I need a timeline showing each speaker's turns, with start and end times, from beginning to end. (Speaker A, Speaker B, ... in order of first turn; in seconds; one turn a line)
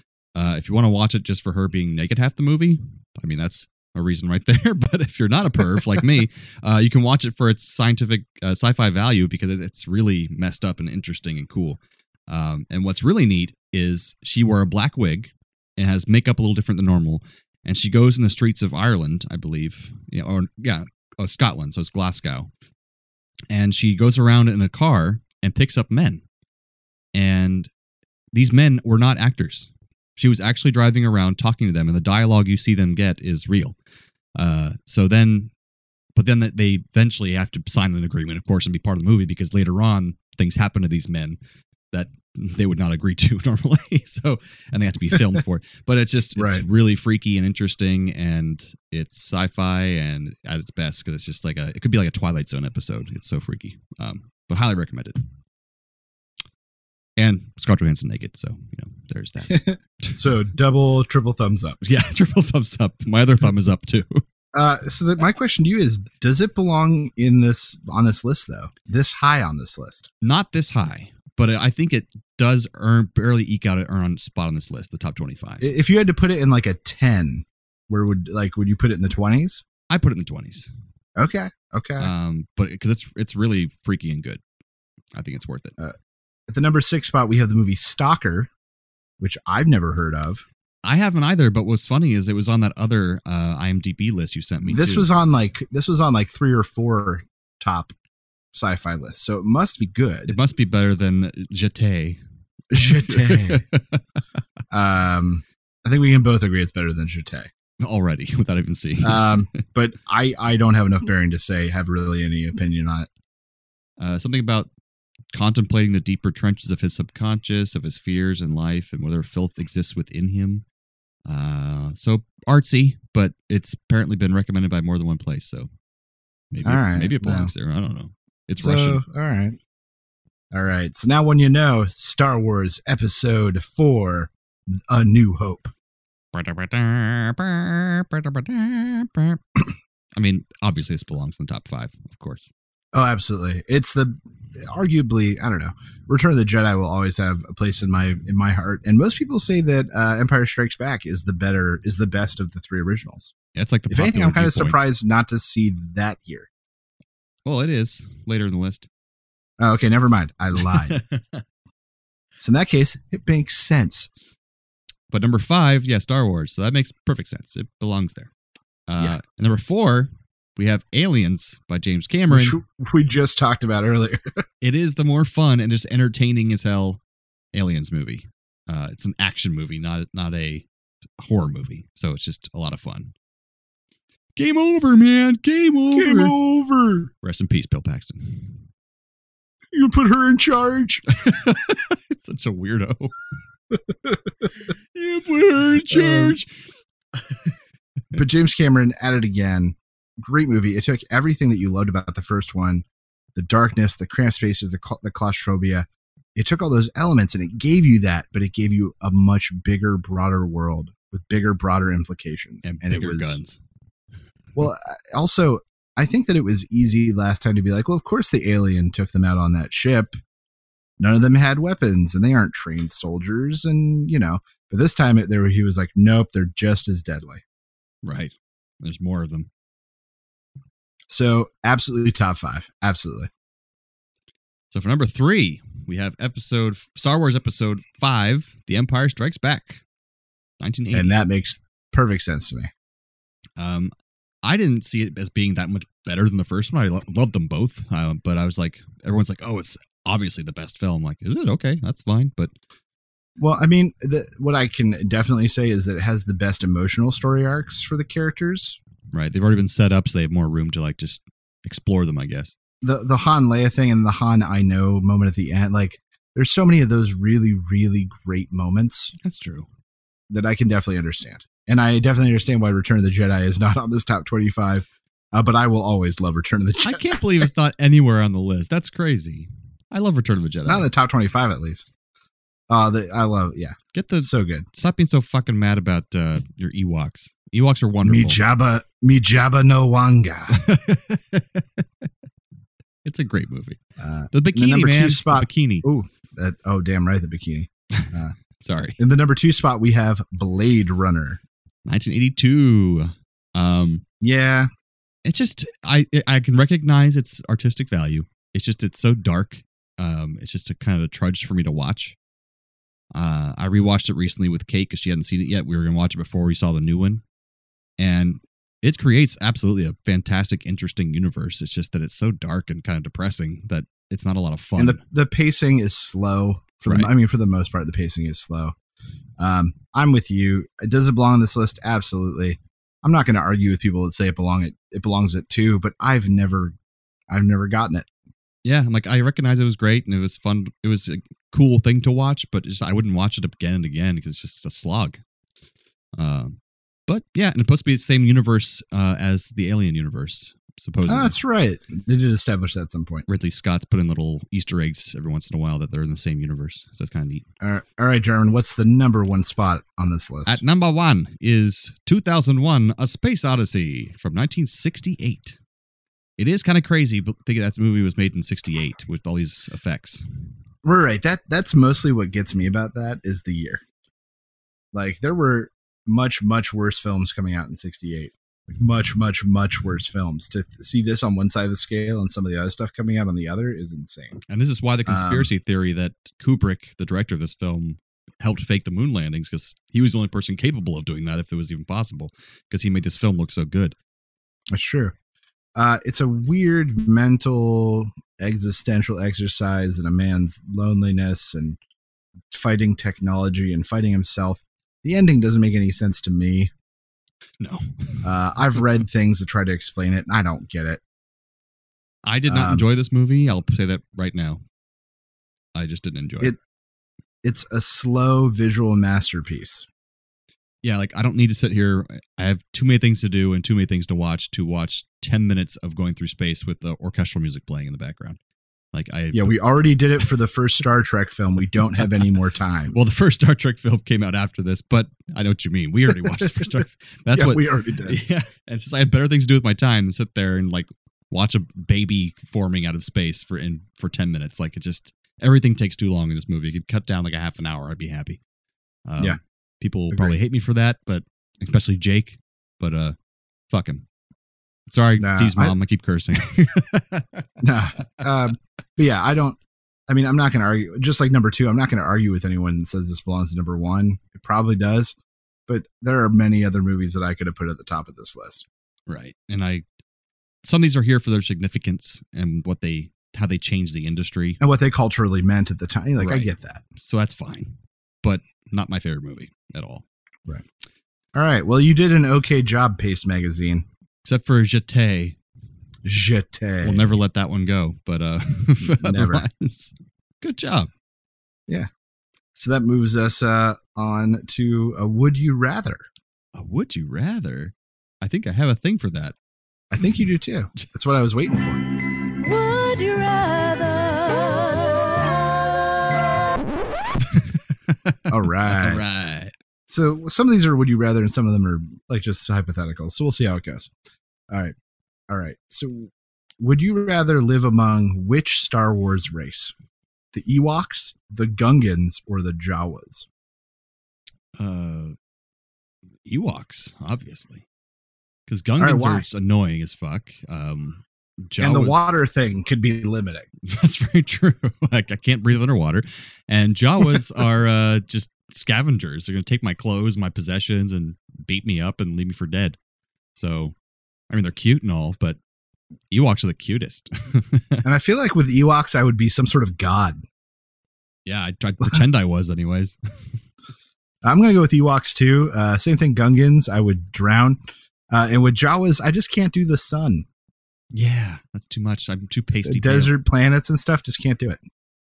Speaker A: 0.3-22.5
Speaker A: 23.5-26.2
Speaker A: 27.1-27.7
Speaker A: 28.3-33.8
Speaker A: 34.4-35.5
Speaker A: 36.1-41.4
Speaker A: 41.9-55.2
Speaker B: 46.4-46.6
Speaker A: 57.2-60.2
Speaker B: 59.5-61.8
Speaker A: 61.8-64.2
Speaker B: 64.5-70.1
Speaker A: 70.2-75.7
Speaker B: 75.6-79.6
Speaker A: 79.9-80.7
Speaker B: 81.2-82.1
Speaker A: 82.0-84.4
Speaker A: 85.1-85.7
Speaker B: 86.5-88.5
Speaker B: 89.2-90.4
Speaker A: 90.8-95.1
Speaker B: 94.6-97.9
Speaker B: 98.5-100.4
Speaker A: 100.3-102.2
Speaker B: 102.7-103.6
Speaker A: 102.8-104.0
Speaker B: 104.7-107.5
Speaker A: 107.8-109.6
Speaker B: 109.0-113.1
Speaker A: 114.0-114.7
Speaker A: 115.3-120.6
Speaker A: 121.3-125.7
Speaker A: 126.5-129.0
Speaker B: 126.6-127.5
Speaker B: 128.6-129.6
Speaker B: 130.5-135.7
Speaker A: 136.3-139.4
Speaker A: 140.2-142.5
Speaker B: 142.9-153.3
Speaker A: 153.5-154.8
Speaker B: 153.9-156.5
Speaker A: 157.4-158.9
Speaker B: 159.6-161.0
Speaker A: 160.6-161.4
Speaker B: 162.4-164.1
Speaker A: 165.1-168.3
Speaker A: 168.9-172.6
Speaker B: 172.3-174.4
Speaker A: 174.6-177.0
Speaker A: 177.5-180.7
Speaker A: 181.2-183.1
Speaker A: 184.3-186.3
Speaker B: 185.9-187.1
Speaker A: 187.2-188.6
Speaker B: 189.7-191.0
Speaker A: 191.2-193.1
Speaker A: 194.9-196.5
Speaker B: 195.9-196.4
Speaker B: 198.1-213.4
Speaker A: 212.6-213.6
Speaker B: 214.5-220.2
Speaker B: 221.0-227.4
Speaker A: 228.0-229.5
Speaker B: 231.1-233.3
Speaker A: 234.7-239.8
Speaker A: 240.6-241.2
Speaker B: 240.9-242.7
Speaker A: 243.6-243.9
Speaker A: 244.4-252.5
Speaker B: 253.4-258.8
Speaker A: 259.1-262.5
Speaker B: 262.8-269.1
Speaker A: 269.2-269.7
Speaker B: 270.3-277.5
Speaker A: 276.8-280.9
Speaker B: 280.6-281.9
Speaker B: 282.7-284.6
Speaker A: 283.9-288.4
Speaker B: 288.0-290.6
Speaker A: 290.5-291.8
Speaker A: 293.0-293.8
Speaker B: 294.0-298.3
Speaker A: 294.3-295.9
Speaker A: 298.6-299.0
Speaker B: 299.0-301.4
Speaker A: 301.9-304.0
Speaker B: 304.2-304.7
Speaker A: 305.2-312.1
Speaker A: 313.1-317.2
Speaker A: 318.0-325.0
Speaker B: 324.8-328.7
Speaker A: 326.9-327.1
Speaker B: 329.4-336.7
Speaker B: 337.3-338.1
Speaker A: 338.6-345.2
Speaker A: 346.2-346.6
Speaker A: 347.1-351.4
Speaker B: 351.1-353.2
Speaker A: 353.3-357.4
Speaker B: 357.6-360.6
Speaker A: 360.4-365.6
Speaker A: 366.4-370.2
Speaker B: 370.8-373.8
Speaker B: 374.9-384.4
Speaker A: 384.5-393.9
Speaker B: 385.1-385.5
Speaker B: 394.7-395.1
Speaker B: 395.8-401.8
Speaker B: 402.5-406.7
Speaker A: 407.6-408.3
Speaker B: 408.2-411.0
Speaker A: 412.2-414.6
Speaker B: 412.5-412.9
Speaker A: 415.8-416.6
Speaker B: 417.4-419.9
Speaker A: 420.8-428.4
Speaker A: 428.9-430.3
Speaker B: 429.3-433.0
Speaker A: 432.9-448.4
Speaker B: 436.3-436.7
Speaker B: 437.3-438.2
Speaker A: 449.1-453.1
Speaker A: 453.7-454.0
Speaker A: 454.9-457.4
Speaker B: 455.2-455.8
Speaker B: 457.6-465.1
Speaker B: 465.7-468.6
Speaker A: 469.1-469.8
Speaker A: 470.6-474.6
Speaker B: 474.6-476.8
Speaker A: 476.2-480.0
Speaker B: 481.3-483.9
Speaker A: 484.2-485.4
Speaker B: 486.0-487.1
Speaker A: 486.8-490.9
Speaker B: 488.8-489.4
Speaker B: 492.5-496.1
Speaker A: 496.5-499.3
Speaker B: 499.9-501.8
Speaker C: 502.5-504.5
Speaker A: 507.3-509.5
Speaker B: 508.3-509.0
Speaker B: 509.9-513.9
Speaker B: 515.3-519.7
Speaker B: 520.3-523.3
Speaker A: 524.6-525.1
Speaker A: 526.2-527.6
Speaker A: 528.5-532.1
Speaker B: 528.8-529.2
Speaker B: 531.6-533.5
Speaker A: 533.6-542.8
Speaker A: 543.3-543.7
Speaker A: 544.3-545.4
Speaker A: 546.1-547.8
Speaker B: 547.8-550.2
Speaker A: 551.2-553.0
Speaker B: 554.2-557.6
Speaker B: 558.1-560.2
Speaker A: 560.9-563.2
Speaker B: 562.6-564.6